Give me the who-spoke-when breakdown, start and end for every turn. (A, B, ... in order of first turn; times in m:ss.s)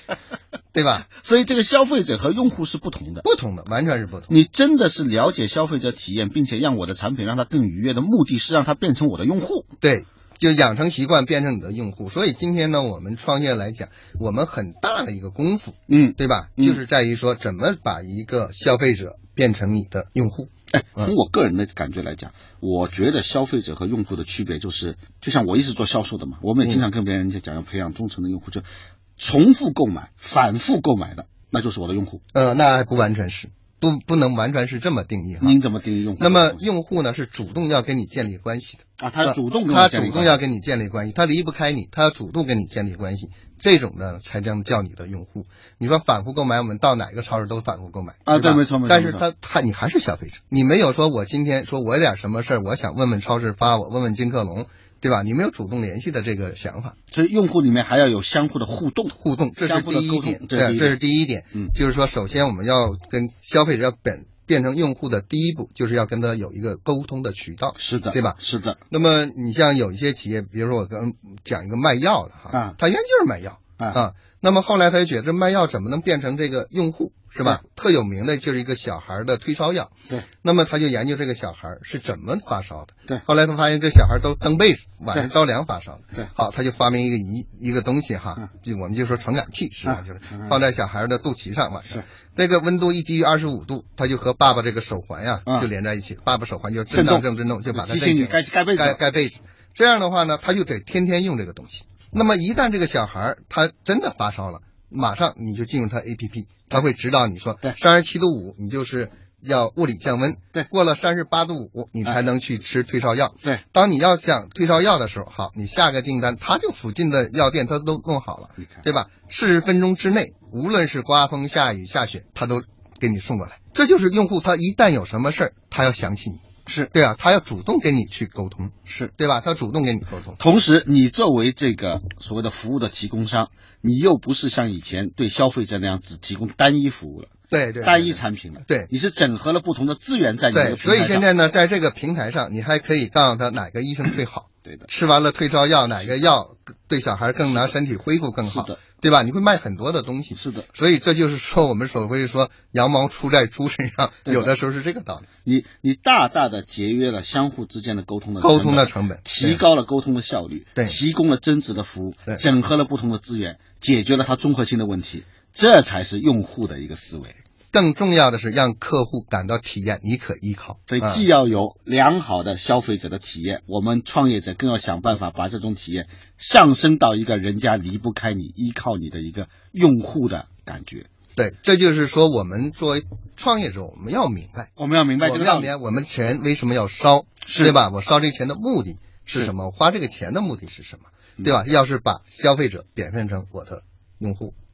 0:00.7-0:01.0 A
0:01.0-0:03.2 B
0:03.2-0:04.4 A
0:04.3-0:09.7 B
0:09.8-0:21.1 A
0:15.9-0:16.8 B
0:20.7-0:32.2 B
0:32.3-0:35.6 A
0:35.4-0:36.6 B
0:36.2-0:57.0 A
0:39.0-0:40.4 B
0:48.2-0:49.2 B
0:57.1-1:01.0 B
0:59.1-1:08.4 A
1:07.8-1:08.8 B
1:08.9-2:06.4 A
1:12.5-1:12.8 B
1:29.8-1:30.6 B
1:36.9-1:39.0 B
1:58.6-1:58.8 B
2:06.7-2:06.9 B
2:06.9-2:10.4 A
2:10.4-2:21.3 B
2:17.5-2:18.9 A
2:20.5-2:35.3 A
2:28.4-2:28.8 B
2:30.3-2:30.7 B
2:34.2-2:34.5 B
2:35.4-2:47.4 B
2:38.4-2:39.6 A
2:47.7-2:51.2 A
2:50.9-3:01.1 B
3:01.3-3:04.7 A
3:04.8-3:05.7 B
3:05.2-3:14.5 A
3:07.4-3:07.7 B